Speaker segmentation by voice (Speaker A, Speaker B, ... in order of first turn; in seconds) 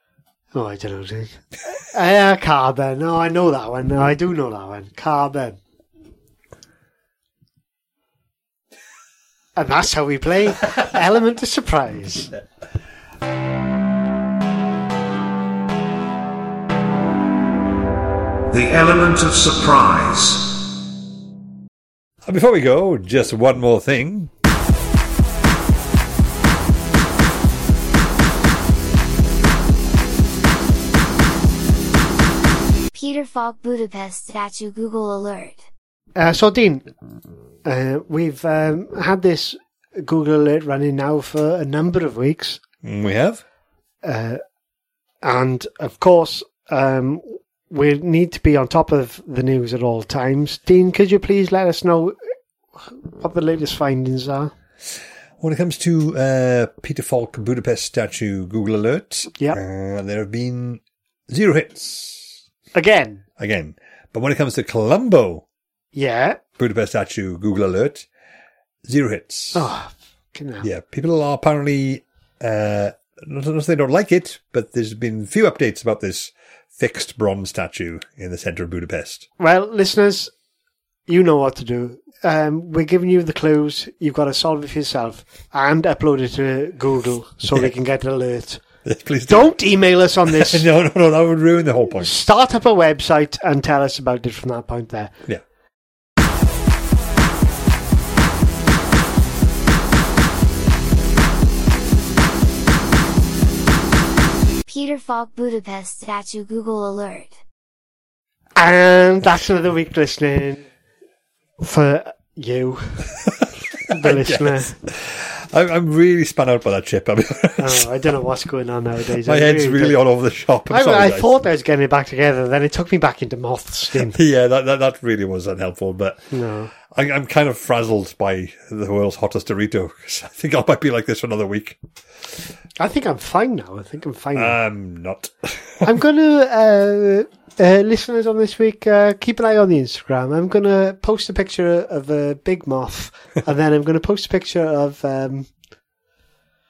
Speaker A: 0.5-5.6, 9.6-12.3, 36.2-36.9, 37.6-42.6, 44.0-44.4, 45.2-52.2, 52.8-54.5, 62.7-63.2, 65.9-66.4, 69.5-70.7, 79.4-80.3, 81.1-88.6, 89.3-90.7, 92.0-95.1, 108.6-110.6, 111.6-113.1, 113.9-114.7, 117.6-120.0, 120.7-124.2, 126.3-126.7, 132.8-134.6, 135.8-145.5
Speaker B: 18.5-20.6
Speaker C: 22.2-24.3, 42.8-43.4, 55.4-62.4, 63.4-65.4, 66.6-68.1, 68.8-69.7, 70.6-79.3, 88.8-89.5, 90.3-92.1, 113.9-117.9, 119.2-121.4, 124.0-126.2, 126.9-131.8, 134.3-135.9
Speaker D: 32.9-35.6, 104.7-107.4